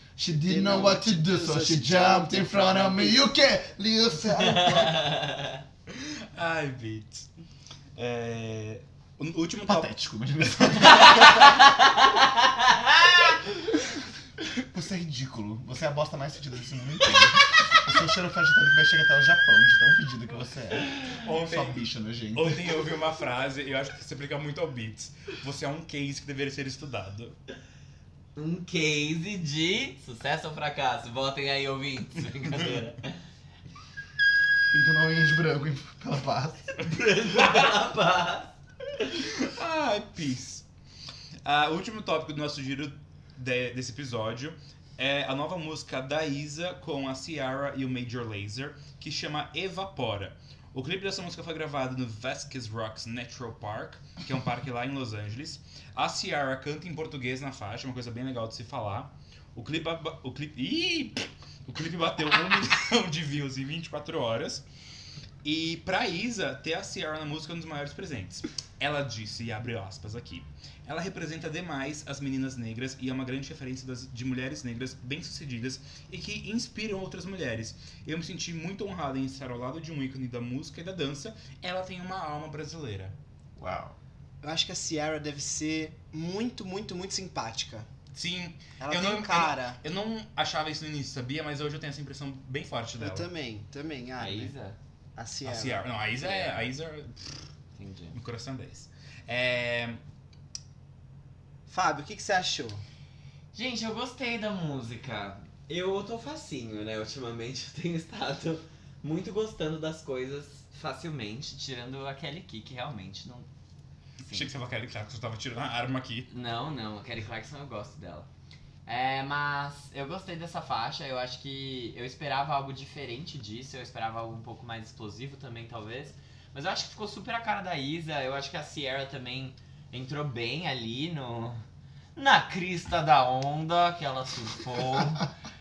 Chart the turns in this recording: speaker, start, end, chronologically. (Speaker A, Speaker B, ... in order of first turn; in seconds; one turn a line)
Speaker A: 0.2-5.0
Speaker B: 0.3-2.6
Speaker C: 2.2-3.2
Speaker C: 4.4-5.6
Speaker D: 5.9-7.3
Speaker D: 8.0-9.9
Speaker A: 9.7-11.6
Speaker D: 10.5-11.4
Speaker C: 11.2-12.9
Speaker A: 14.6-22.9
Speaker D: 21.1-27.4
Speaker C: 28.4-33.2
Speaker A: 34.7-36.7
Speaker C: 36.8-38.6
Speaker D: 39.1-40.6
Speaker D: 41.4-64.6
Speaker D: 65.4-83.1
Speaker C: 83.6-83.9
Speaker B: 84.4-87.9
Speaker D: 88.1-93.3
Speaker B: 88.8-89.8
Speaker B: 93.0-94.5
Speaker C: 94.2-94.8
Speaker B: 95.2-95.9
Speaker D: 95.4-97.5
Speaker C: 96.2-96.7
Speaker C: 97.8-98.2
Speaker D: 98.1-100.0
Speaker B: 101.7-102.8
Speaker C: 103.5-113.5
Speaker D: 114.3-116.3
Speaker C: 116.3-118.3
Speaker C: 118.9-131.6
Speaker C: 132.1-135.3